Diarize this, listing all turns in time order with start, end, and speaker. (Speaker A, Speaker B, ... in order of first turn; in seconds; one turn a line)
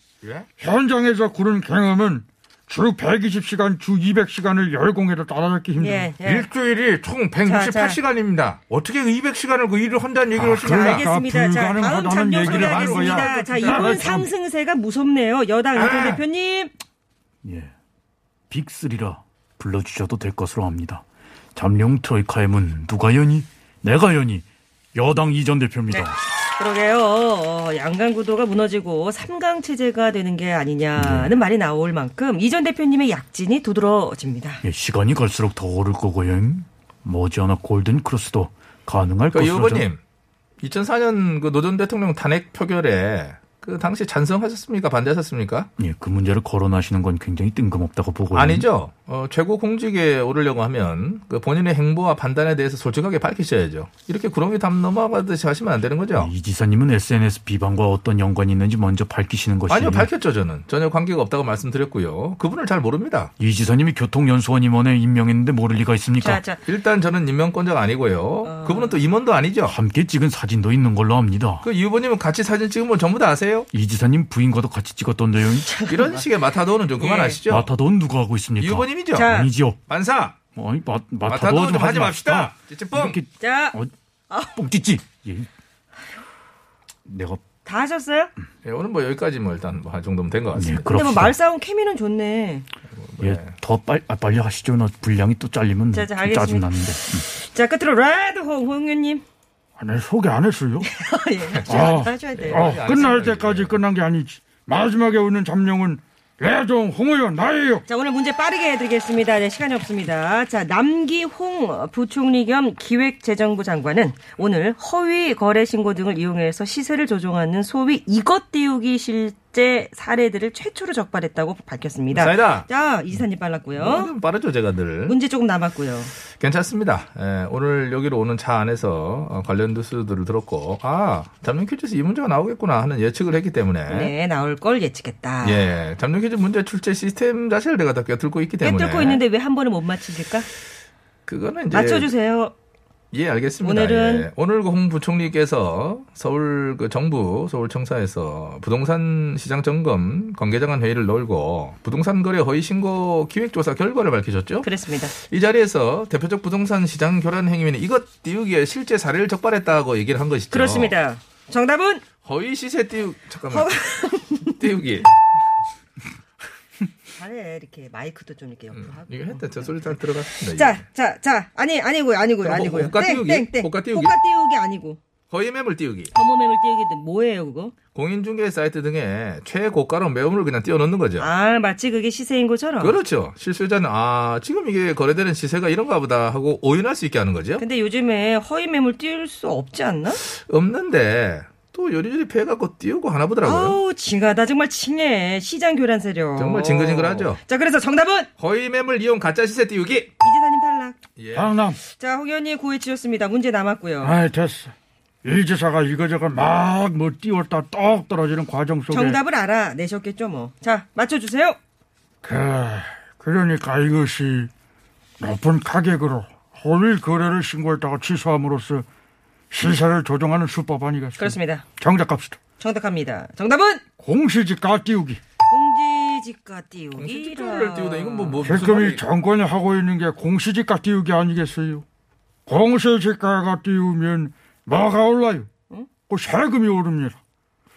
Speaker A: 0.6-6.2
Speaker B: 5.8-6.5
Speaker C: 6.2-11.1
Speaker B: 7.4-8.0
Speaker A: 10.3-14.3
Speaker B: 10.7-16.7
Speaker C: 12.4-14.1
Speaker C: 15.7-16.2
Speaker D: 17.4-17.7
Speaker D: 18.5-26.2
Speaker B: 25.9-34.6
Speaker D: 30.9-31.3
Speaker D: 34.6-39.9
Speaker E: 39.3-40.0
Speaker E: 40.6-45.7
Speaker D: 45.8-48.7
Speaker E: 48.3-56.3
Speaker D: 56.1-60.1
Speaker E: 59.7-63.3
Speaker D: 63.4-66.4
Speaker B: 66.2-66.6
Speaker E: 66.6-69.8
Speaker B: 68.4-69.0
Speaker D: 69.6-71.7
Speaker E: 71.6-73.7
Speaker D: 73.7-75.7
Speaker B: 75.6-76.2
Speaker E: 75.9-77.7
Speaker B: 77.0-77.4
Speaker D: 77.5-79.8
Speaker E: 78.6-79.3
Speaker B: 79.1-79.5
Speaker E: 79.9-80.3
Speaker D: 80.5-83.9
Speaker E: 81.2-83.2
Speaker B: 83.4-83.8
Speaker B: 84.3-84.6
Speaker D: 84.5-85.5
Speaker D: 87.0-87.4
Speaker B: 87.6-88.3
Speaker E: 88.6-90.8
Speaker D: 90.5-91.3
Speaker B: 90.8-92.7
Speaker E: 93.0-93.5
Speaker D: 93.2-97.2
Speaker B: 95.9-99.2
Speaker A: 99.8-100.9
Speaker B: 100.8-103.1
Speaker A: 101.7-107.8
Speaker E: 101.7-103.8
Speaker B: 107.9-124.1
Speaker E: 122.1-122.7
Speaker E: 123.7-125.2
Speaker B: 125.1-126.1
Speaker E: 126.3-134.1
Speaker B: 133.9-135.6
Speaker E: 135.4-139.2
Speaker B: 138.6-140.5
Speaker E: 141.3-142.1
Speaker B: 141.7-142.5
Speaker E: 143.1-160.9
Speaker B: 143.6-144.3
Speaker B: 154.6-155.1
Speaker B: 160.5-162.0
Speaker E: 162.2-163.8
Speaker B: 163.5-164.6
Speaker E: 164.3-165.1
Speaker B: 167.1-175.0
Speaker E: 168.7-170.8
Speaker E: 172.4-174.2
Speaker E: 175.3-176.1
Speaker B: 176.1-177.7
Speaker E: 177.9-181.3
Speaker B: 181.2-183.0
Speaker E: 182.8-187.6
Speaker B: 187.6-190.2
Speaker E: 190.1-193.8
Speaker B: 193.4-198.3
Speaker E: 196.4-197.4
Speaker E: 198.4-200.1
Speaker B: 200.2-201.0
Speaker E: 201.2-201.5
Speaker A: 201.3-201.8
Speaker B: 201.8-204.2
Speaker A: 204.0-204.7
Speaker A: 205.2-209.2
Speaker B: 208.9-211.6
Speaker A: 212.2-214.5
Speaker A: 215.2-218.8
Speaker A: 219.5-222.4
Speaker B: 221.2-221.6
Speaker B: 222.6-223.8
Speaker A: 224.0-225.2
Speaker B: 225.5-228.5
Speaker E: 226.9-229.0
Speaker A: 228.4-231.8
Speaker A: 232.5-235.5
Speaker A: 236.1-237.2